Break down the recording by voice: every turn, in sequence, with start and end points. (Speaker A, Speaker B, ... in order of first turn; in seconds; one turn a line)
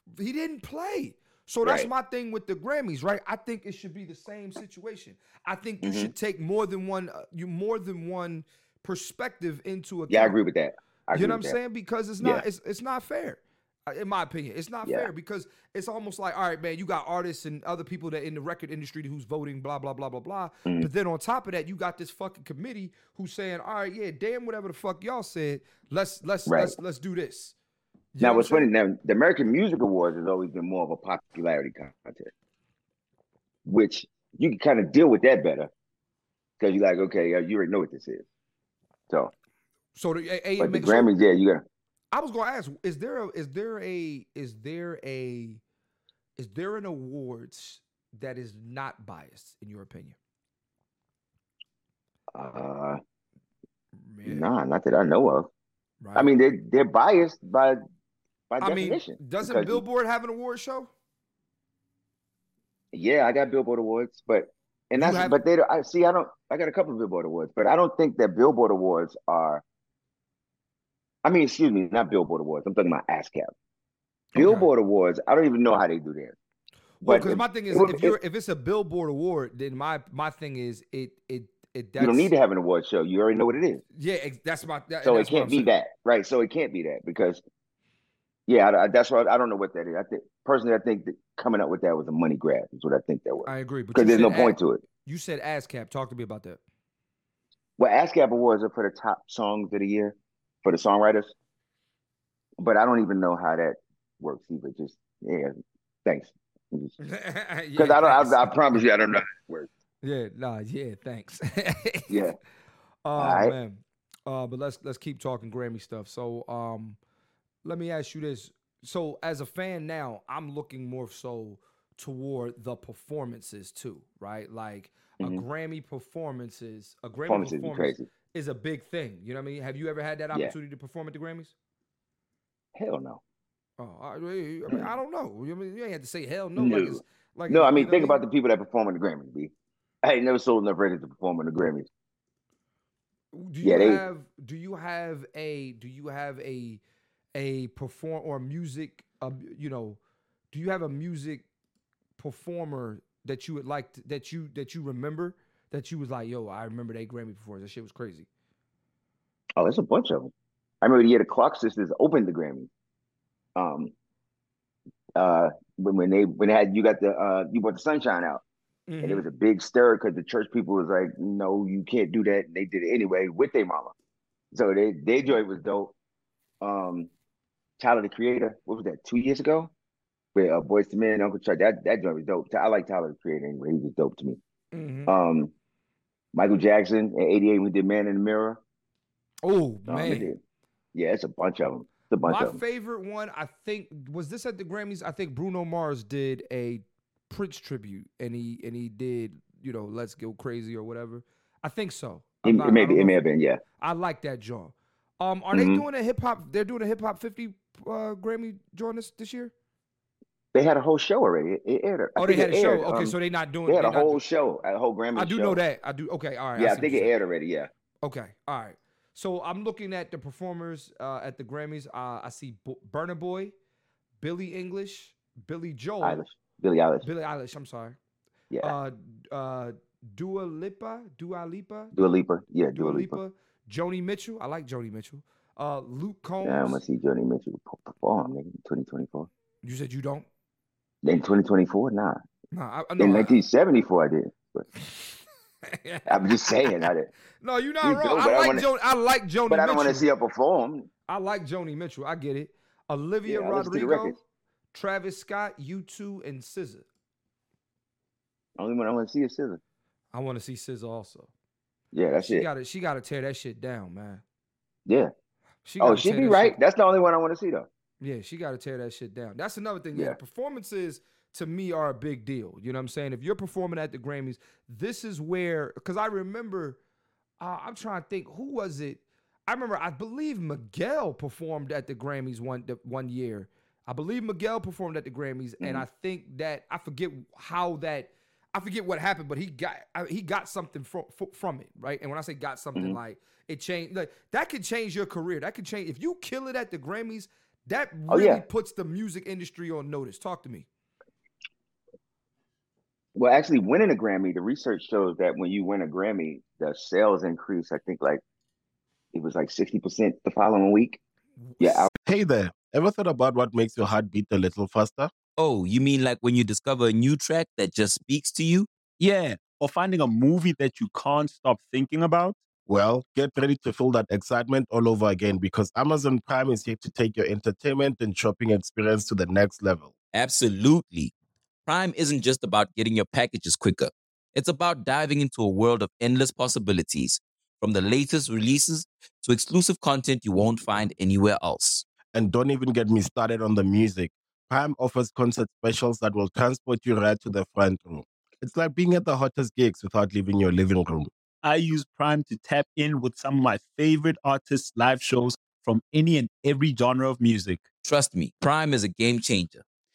Speaker A: 0.2-10.4
Speaker B: 1.6-1.9
Speaker B: 5.8-6.1
Speaker B: 10.1-11.6
Speaker A: 11.1-27.5
Speaker B: 26.5-26.8
Speaker A: 28.1-28.7
Speaker B: 28.2-32.3
Speaker B: 33.6-35.7
Speaker B: 36.6-38.3
Speaker A: 40.0-41.1
Speaker B: 40.6-41.6
Speaker A: 42.1-45.6
Speaker A: 46.4-50.2
Speaker B: 52.3-53.0
Speaker A: 54.0-54.5
Speaker B: 54.2-55.5
Speaker A: 56.0-56.3
Speaker B: 56.1-57.8
Speaker B: 58.5-59.8
Speaker A: 58.6-60.9
Speaker B: 62.9-69.6
Speaker A: 65.0-65.4
Speaker B: 71.2-73.5
Speaker A: 74.3-74.7
Speaker B: 74.3-76.4
Speaker A: 77.0-82.3
Speaker B: 77.0-78.2
Speaker B: 82.0-83.8
Speaker A: 84.0-85.7
Speaker B: 85.0-87.4
Speaker B: 88.5-94.8
Speaker A: 93.5-96.6
Speaker B: 97.8-101.3
Speaker B: 102.6-107.0
Speaker A: 107.0-108.6
Speaker B: 107.8-109.7
Speaker A: 110.0-112.2
Speaker B: 112.1-112.4
Speaker A: 113.0-117.0
Speaker B: 113.2-113.6
Speaker A: 117.6-131.5
Speaker B: 127.3-128.1
Speaker B: 132.8-133.2
Speaker A: 133.8-138.2
Speaker B: 136.6-141.9
Speaker A: 143.3-146.8
Speaker B: 143.6-144.0
Speaker A: 147.3-150.0
Speaker A: 150.5-151.5
Speaker A: 152.2-158.3
Speaker B: 159.6-162.7
Speaker B: 163.6-163.9
Speaker B: 165.2-168.4
Speaker A: 168.9-169.3
Speaker B: 169.0-173.9
Speaker B: 174.5-175.9
Speaker B: 176.6-177.1
Speaker B: 177.8-179.7
Speaker B: 180.3-184.4
Speaker A: 184.7-185.1
Speaker B: 185.1-185.5
Speaker B: 186.3-188.6
Speaker A: 189.4-190.3
Speaker B: 189.9-190.4
Speaker B: 190.9-192.6
Speaker A: 192.2-203.2
Speaker B: 202.4-203.6
Speaker A: 203.8-209.5
Speaker B: 205.5-205.8
Speaker B: 210.5-215.6
Speaker A: 212.2-214.2
Speaker A: 215.2-217.1
Speaker B: 216.6-217.7
Speaker A: 218.0-223.5
Speaker A: 224.2-226.2
Speaker B: 226.0-227.1
Speaker A: 227.0-228.0
Speaker A: 228.6-231.9
Speaker B: 231.9-233.2
Speaker A: 232.7-236.8
Speaker B: 236.4-239.3
Speaker A: 239.6-240.3
Speaker B: 241.0-242.2
Speaker A: 242.5-243.4
Speaker B: 243.0-244.7
Speaker A: 244.9-245.2
Speaker A: 245.7-246.9
Speaker B: 246.1-247.1
Speaker A: 247.4-250.1
Speaker B: 247.8-248.7
Speaker B: 249.5-250.9
Speaker A: 251.1-254.2
Speaker B: 253.2-254.2
Speaker A: 254.7-256.9
Speaker B: 258.6-259.6
Speaker A: 260.1-261.3
Speaker B: 261.9-262.5
Speaker A: 262.2-264.2
Speaker B: 264.9-265.1
Speaker A: 265.6-266.6
Speaker B: 265.8-267.7
Speaker A: 268.0-276.8
Speaker A: 277.4-300.7
Speaker B: 285.6-285.9
Speaker B: 298.1-298.4
Speaker B: 303.1-308.2
Speaker B: 309.1-311.0
Speaker A: 311.4-311.9
Speaker B: 311.6-311.9
Speaker C: 312.1-315.1
Speaker D: 315.4-318.7
Speaker E: 319.0-322.4
Speaker C: 322.7-329.9
Speaker D: 330.1-331.1
Speaker D: 331.7-341.9
Speaker C: 342.1-351.1
Speaker E: 351.4-357.6
Speaker D: 357.8-359.6